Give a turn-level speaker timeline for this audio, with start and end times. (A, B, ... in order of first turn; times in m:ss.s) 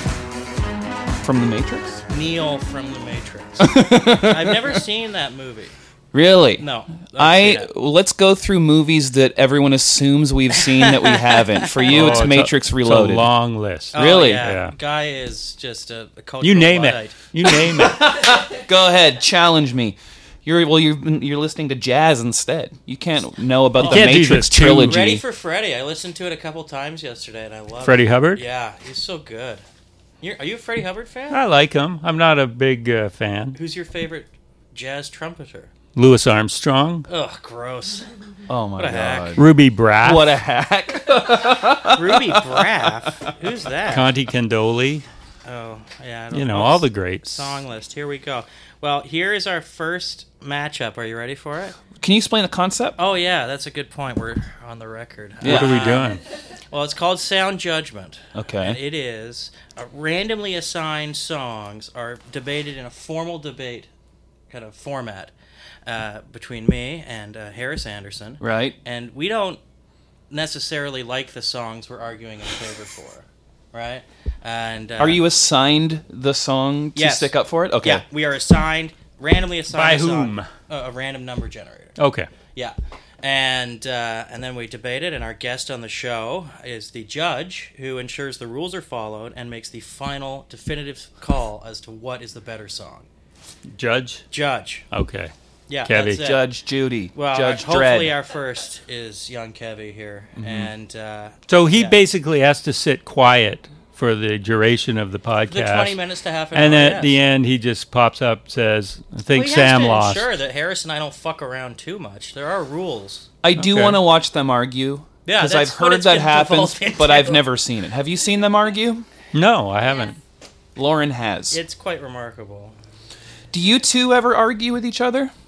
0:01.2-0:02.0 A
0:02.1-0:05.7 B
0:03.6-0:04.8 A
0:06.1-0:13.3 A
0:06.6-0:07.7 B
0:10.6-0:12.2 B
0:11.9-0:14.7 C
0:13.9-0:14.5 A
0:13.9-0:17.2 B
0:16.4-0:18.2 C
0:17.5-0:25.2 A
0:23.8-0:25.0 C
0:24.9-0:29.6 B
0:27.8-0:28.4 C
0:30.2-0:31.4 B
0:31.3-0:33.6 C
0:33.6-0:35.7 B
0:36.0-0:37.1 C
0:37.1-0:38.1 B
0:38.5-0:42.7 A
0:38.8-0:39.4 B
0:39.4-0:40.3 C
0:41.9-0:44.1 B
0:43.9-0:45.0 C
0:45.5-0:51.8 B
0:46.3-0:47.5 C
0:52.0-0:53.0 A
0:53.0-0:56.2 B
0:55.4-0:55.8 A
0:55.4-0:56.2 C
0:56.7-1:03.9 B
0:58.3-0:58.8 A
1:04.5-1:05.3 B
1:05.9-1:09.6 B
1:08.4-1:08.8 A
1:10.3-1:15.2 B
1:15.0-1:18.0 A
1:17.0-1:22.0 B
1:19.7-1:20.5 C
1:22.0-1:22.3 C
1:22.6-1:33.1 B
1:33.8-1:34.2 C
1:34.3-1:34.8 B
1:34.9-1:35.3 C
1:35.7-1:36.4 B
1:35.9-1:36.2 C
1:36.2-1:38.2 A
1:37.2-1:42.0 B
1:40.4-1:40.7 A
1:41.5-1:46.0 C
1:45.5-1:47.1 B
1:46.5-1:50.3 C
1:49.3-1:53.3 B
1:53.4-1:59.0 A
1:53.6-1:54.0 C
1:55.2-1:57.5 B
1:59.3-2:00.2 C
2:00.8-2:01.6 A
2:01.5-2:02.8 B
2:03.5-2:05.3 A